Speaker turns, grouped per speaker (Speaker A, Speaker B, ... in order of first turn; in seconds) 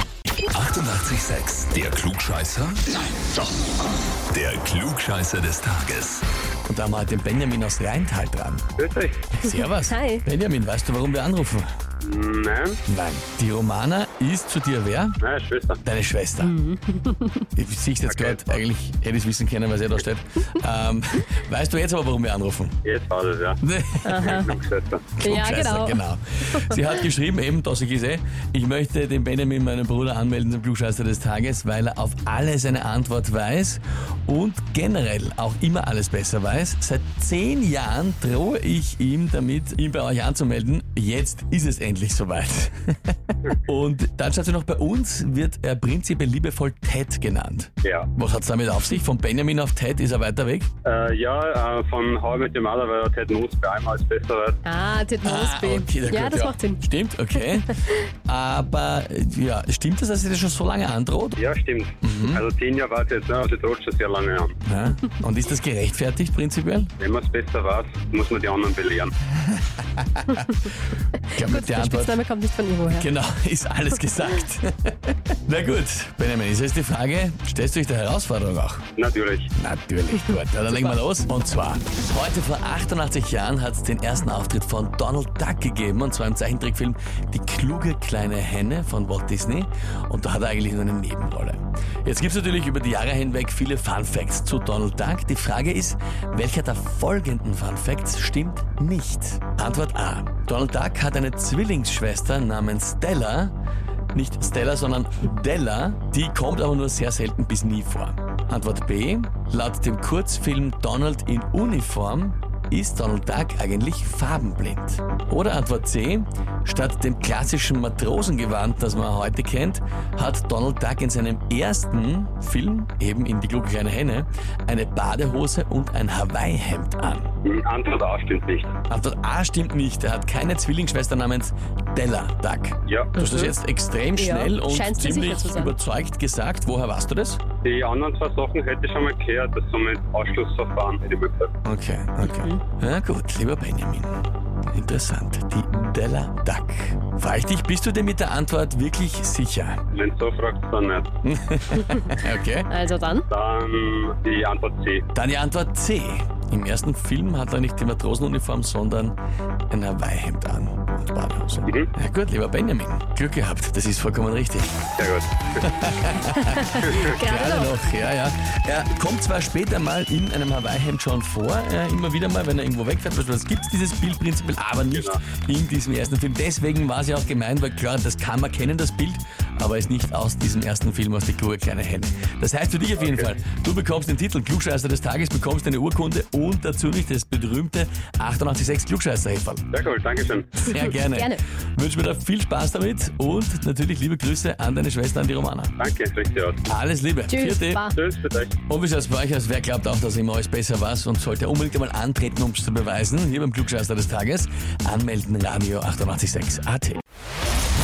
Speaker A: 0.6-2.8, 4.3-6.2
Speaker B: 6.7-8.7, 9.3-11.7, 12.9-15.2, 15.8-16.6, 17.5-22.8, 23.6-24.4, 25.2-50.7, 55.2-61.4, 62.0-62.4, 64.7-66.9, 69.3-72.2, 72.9-78.8, 79.6-103.5, 104.1-127.3, 128.9-137.4, 141.6-149.8, 151.2-152.7, 155.1-159.2, 159.7-164.9, 165.6-189.6, 190.6-195.7, 196.7-197.8, 198.7-207.0
Speaker C: 8.8-9.2, 12.0-12.8, 15.2-15.8, 18.1-18.6, 22.9-23.6, 24.1-25.2, 47.8-48.1, 50.8-54.6, 61.4-64.6, 67.0-69.1, 79.0-79.5, 127.4-128.8, 132.9-133.2, 137.6-141.5, 149.9-151.1, 153.3-155.1, 165.0-165.7, 166.8-167.1, 174.9-175.2, 183.0-183.2, 189.7-190.7, 195.8-196.6, 197.9-198.6
Speaker D: 9.5-10.2, 16.4-17.4, 24.1-24.5, 25.2-26.0, 54.6-56.8, 71.4-73.1, 133.2-133.5, 134.2-135.7, 142.3-142.6, 152.7-153.3, 166.5-167.9, 191.0-191.4, 197.3-198.0